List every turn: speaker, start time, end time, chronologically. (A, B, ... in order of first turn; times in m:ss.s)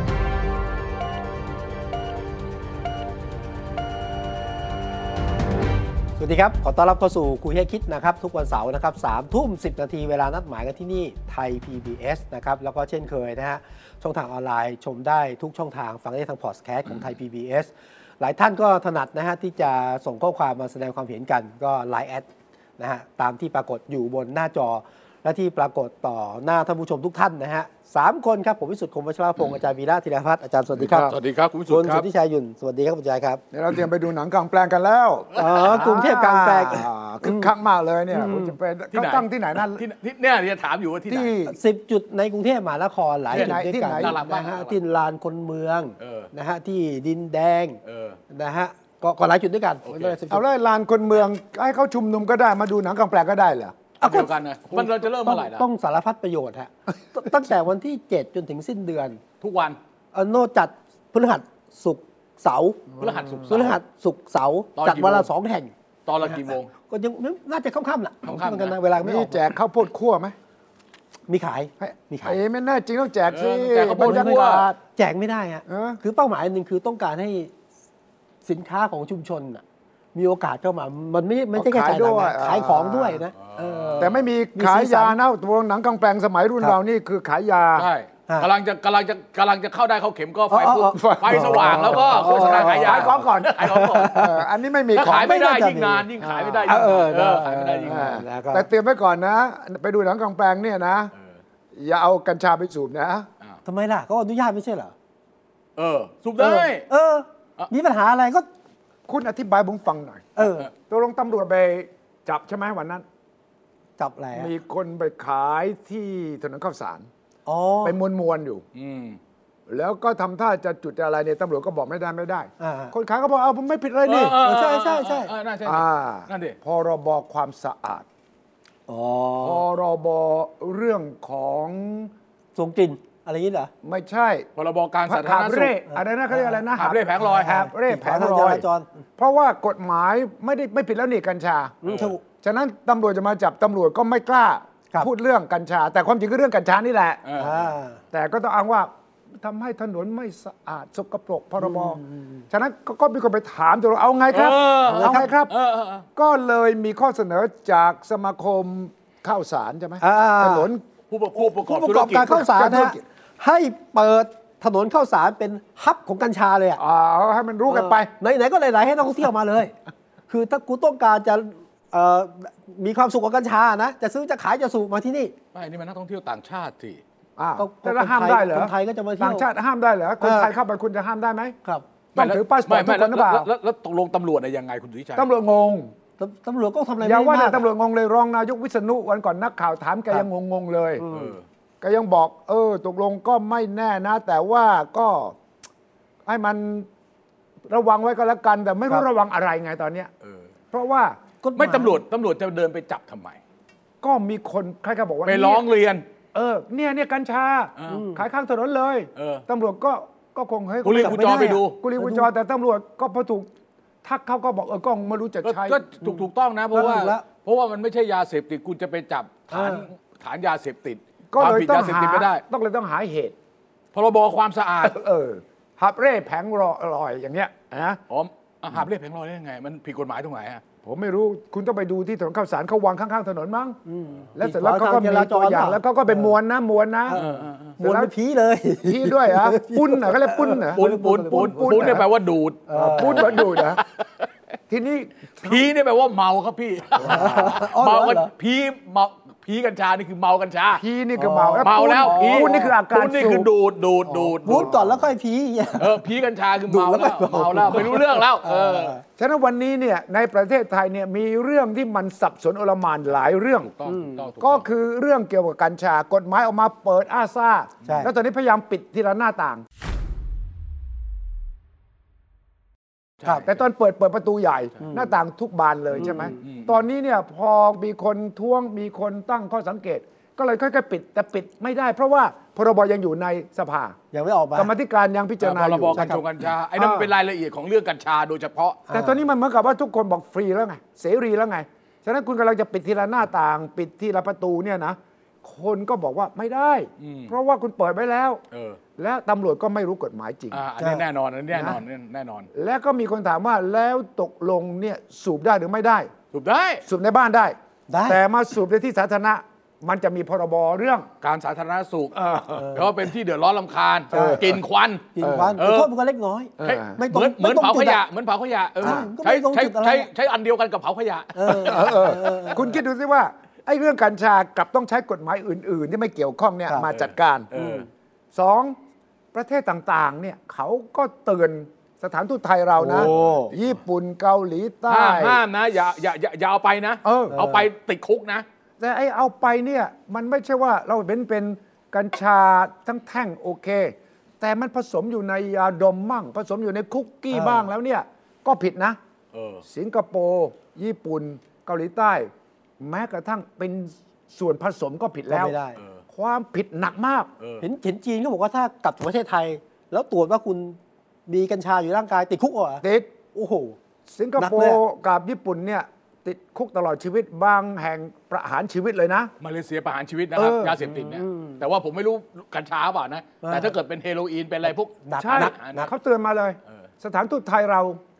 0:06.2-0:22.2 A
0:22.8-0:31.2 A
0:30.8-0:32.1 B
0:31.7-0:33.4 A
0:33.5-0:39.8 C
0:35.3-0:37.5 A
0:38.1-0:38.5 A
0:38.9-0:41.3 B
0:41.1-0:41.6 C
0:41.4-0:47.8 A
0:43.3-0:44.1 C
0:43.3-0:44.8 B
0:46.0-0:46.3 B
0:47.8-0:48.2 B
0:48.3-0:50.4 A
0:49.8-0:50.2 B
0:50.3-0:53.9 C
0:54.0-0:59.2 A
0:54.0-0:55.6 B
0:59.4-0:59.8 B
1:00.1-1:05.7 A
1:03.0-1:03.6 C
1:03.0-1:03.8 B
1:04.8-1:05.3 B
1:06.0-1:06.7 B
1:06.2-1:09.4 A
1:08.2-1:08.8 B
1:09.0-1:10.4 C
1:11.3-1:12.4 A
1:11.8-1:14.8 C
1:13.3-1:14.7 B
1:14.0-1:17.5 A
1:15.7-1:16.0 C
1:18.4-1:19.6 A
1:20.1-1:25.2 A
1:21.5-1:23.2 C
1:23.4-1:24.2 B
1:24.0-1:27.9 C
1:27.7-1:34.3 B
1:30.5-1:34.4 A
1:31.0-1:35.4 C
1:34.9-1:38.2 B
1:35.1-1:36.1 A
1:36.2-1:37.1 C
1:36.6-1:38.7 A
1:37.8-1:41.1 C
1:41.7-1:43.3 C
1:43.6-1:44.9 A
1:45.8-1:46.8 B
1:46.4-1:48.5 A
1:49.1-1:53.0 C
1:50.4-1:50.7 A
1:50.4-1:50.7 B
1:54.0-1:54.5 A
1:54.3-1:57.1 C
1:57.4-1:58.0 A
1:57.8-1:58.6 C
1:58.7-1:59.2 B
1:59.7-2:04.4 C
2:02.6-2:02.9 A
2:04.0-2:06.6 B
2:04.4-2:05.3 A
2:05.6-2:08.0 C
2:08.9-2:09.6 A
2:09.4-2:12.1 C
2:12.5-2:13.7 A
2:13.8-2:14.5 C
2:14.6-2:15.7 B
2:15.0-2:18.6 C
2:15.9-2:16.6 A
2:16.7-2:17.6 B
2:17.2-2:18.9 A
2:19.2-2:27.2 C
2:21.8-2:22.2 A
2:21.8-2:22.1 B
2:27.2-2:27.7 B
2:27.4-2:28.0 A
2:28.1-2:35.5 C
2:31.6-2:32.4 A
2:34.3-2:36.0 B
2:34.9-2:35.3 A
2:36.2-2:40.8 C
2:40.0-2:40.7 A
2:41.1-2:42.5 B
2:41.6-2:46.8 A
2:42.2-2:43.0 C
2:46.8-2:48.1 C
2:47.7-2:49.7 A
2:50.3-2:55.3 A
2:55.5-2:57.0 B
2:57.4-3:01.6 C
2:57.6-2:59.5 A
3:00.2-3:00.5 A
3:02.1-3:03.5 C
3:02.1-3:05.3 B
3:05.2-3:05.9 C
3:06.2-3:07.6 A
3:07.0-3:11.0 C
3:11.0-3:11.3 A
3:11.1-3:11.4 B
3:11.8-3:15.4 C
3:16.2-3:16.9 C
3:17.7-3:20.1 C
3:20.2-3:20.5 B
3:20.7-3:21.2 C
3:21.4-3:22.0 A
3:21.6-3:23.4 B
3:24.0-3:25.6 C
3:25.2-3:26.0 B
3:26.3-3:33.5 C
3:27.8-3:28.1 B
3:27.9-3:28.2 A
3:29.2-3:29.4 B
3:30.8-3:31.8 B
3:30.9-3:32.3 A
3:34.0-3:35.8 C
3:35.4-3:42.4 B
3:36.0-3:37.2 A
3:39.5-3:39.9 A
3:41.3-3:43.3 C
3:43.9-3:45.0 B
3:44.8-3:48.0 C
3:48.1-3:50.6 B
3:50.8-3:53.8 C
3:53.9-3:56.3 A
3:54.4-3:57.2 C
3:57.1-4:02.0 A
3:57.1-3:57.7 B
3:57.8-3:58.1 C
3:58.8-4:02.0 C
4:00.7-4:04.3 B
4:02.7-4:03.4 A
4:02.8-4:03.8 C
4:04.7-4:05.7 C
4:05.4-4:10.8 B
4:07.0-4:07.6 C
4:07.0-4:08.3 A
4:10.7-4:13.5 C
4:11.2-4:12.7 A
4:11.6-4:15.0 B
4:14.1-4:16.0 A
4:14.5-4:14.8 C
4:15.8-4:19.0 B
4:16.7-4:19.0 A
4:19.2-4:23.7 C
4:23.6-4:24.6 B
4:23.8-4:24.3 A
4:24.4-4:29.6 C
4:27.8-4:28.1 A
4:33.2-4:33.5 B
4:33.4-4:44.0 C
4:34.8-4:35.1 A
4:36.0-4:36.8 B
4:36.0-4:36.3 A
4:44.1-4:44.7 A
4:44.5-4:46.0 C
4:45.4-4:48.8 B
4:46.0-4:46.2 A
4:46.8-4:47.1 C
4:48.9-4:49.2 A
4:48.9-4:58.4 C
4:57.0-4:57.3 B
4:58.5-4:58.8 B
4:59.0-5:00.6 C
5:00.5-5:02.5 B
5:00.8-5:01.0 A
5:01.5-5:01.8 C
5:02.5-5:06.1 C
5:06.3-5:06.8 B
5:06.8-5:11.1 C
5:07.9-5:08.2 A
5:11.2-5:15.9 B
5:12.2-5:12.6 C
5:12.6-5:12.9 A
5:14.1-5:14.5 A
5:14.1-5:14.6 C
5:15.1-5:18.0 A
5:15.2-5:15.6 C
5:16.6-5:16.9 C
5:16.6-5:22.5 B
5:18.8-5:20.1 A
5:21.3-5:22.8 A
5:21.5-5:27.5 C
5:27.5-5:27.9 B
5:27.5-5:27.9 A
5:28.3-5:28.8 C
5:29.3-5:35.4 C
5:32.8-5:33.5 A
5:32.9-5:33.6 B
5:34.9-5:38.4 B
5:37.0-5:37.4 C
5:37.3-5:37.6 A
5:38.8-5:49.0 C
5:47.3-5:47.7 A
5:49.3-5:49.6 B
5:49.6-5:55.6 C
5:55.3-5:55.8 A
5:55.8-5:56.0 B
5:56.1-5:57.3 C
5:57.6-6:03.8 A
6:02.8-6:03.1 C
6:04.1-6:09.3 C
6:04.4-6:04.8 A
6:09.4-6:15.9 B
6:10.3-6:10.8 C
6:10.8-6:11.6 A
6:13.4-6:13.7 A
6:14.7-6:15.9 A
6:15.2-6:18.0 C